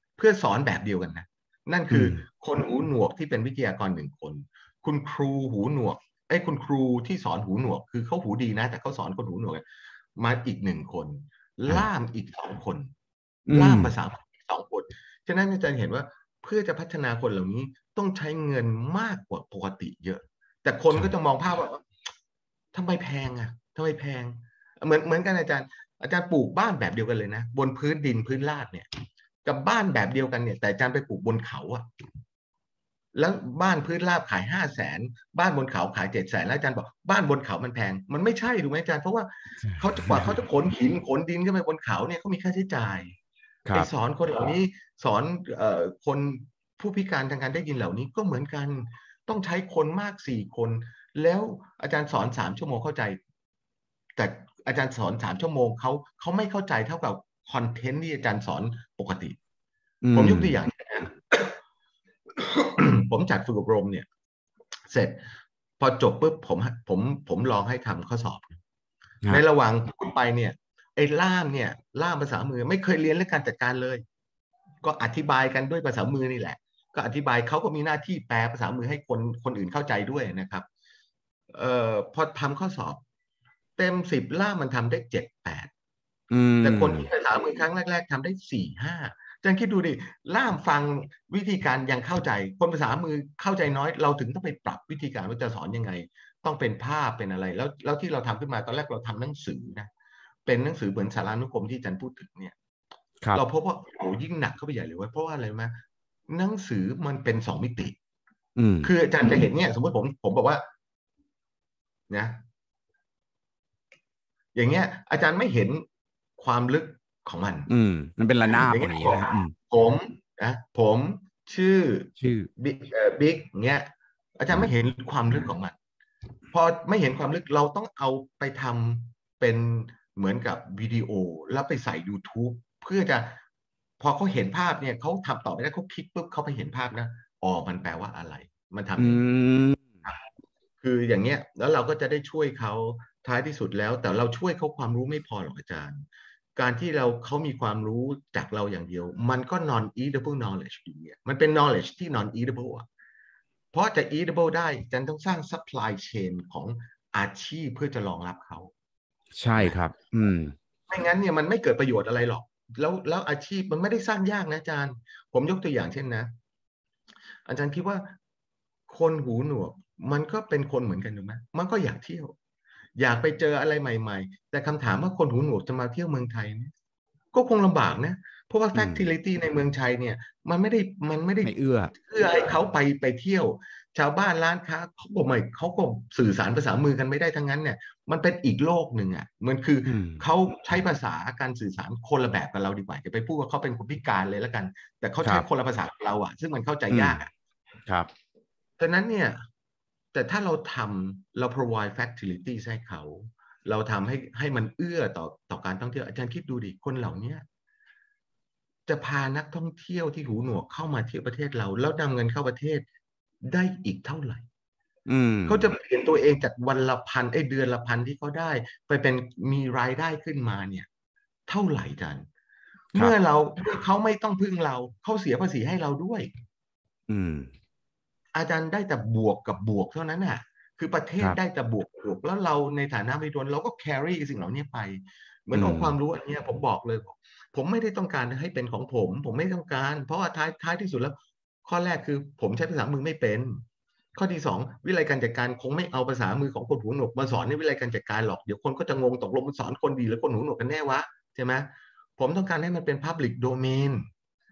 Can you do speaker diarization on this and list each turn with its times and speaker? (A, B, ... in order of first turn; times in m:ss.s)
0:00.2-0:09.6 A
0:01.9-0:02.2 B
0:10.2-0:12.9 A
0:13.5-0:13.9 B
0:13.5-0:21.9 A
0:22.7-0:28.9 A
0:29.4-0:31.9 A
0:33.1-0:43.2 A
0:39.6-0:40.4 B
0:43.7-0:53.2 A
0:54.2-0:59.4 A
1:00.0-1:00.6 B
1:00.1-1:01.6 A
1:02.3-1:04.1 A
1:04.9-1:05.2 A
1:05.8-1:08.6 A
1:09.3-1:14.0 A
1:14.8-1:20.7 A
1:21.5-1:23.0 A
1:23.8-1:25.7 A
1:26.3-1:27.1 B
1:26.6-1:39.9 A
1:40.5-1:42.6 A
1:43.3-1:45.7 A
1:46.3-1:48.0 A
1:48.6-1:48.9 B
1:48.8-1:50.6 A
1:52.1-1:52.4 A
1:54.5-1:55.8 A
1:56.4-1:57.7 A
1:57.7-1:59.5 B
1:58.5-2:05.8 A
2:02.2-2:02.5 B
2:06.5-2:13.4 A
2:14.0-2:19.2 A
2:19.0-2:20.1 B
2:20.8-2:32.9 A
2:33.7-2:38.7 A
2:39.4-2:40.6 B
2:40.9-2:46.3 A
2:47.5-2:48.1 A
2:48.9-2:52.4 A
2:53.0-2:56.7 A
2:57.3-3:17.3 A
2:58.7-2:59.1 B
3:01.4-3:01.9 B
3:09.8-3:10.3 B
3:16.9-3:17.2 B
3:18.8-3:19.4 A
3:20.1-3:27.4 A
3:28.9-3:32.8 A
3:33.4-3:34.4 A
3:35.1-3:35.7 B
3:35.5-3:40.9 A
3:41.5-3:42.3 A
3:42.9-3:46.3 A
3:47.1-3:47.5 B
3:48.3-4:03.6 A
3:55.6-3:56.0 B
4:04.2-4:14.1 A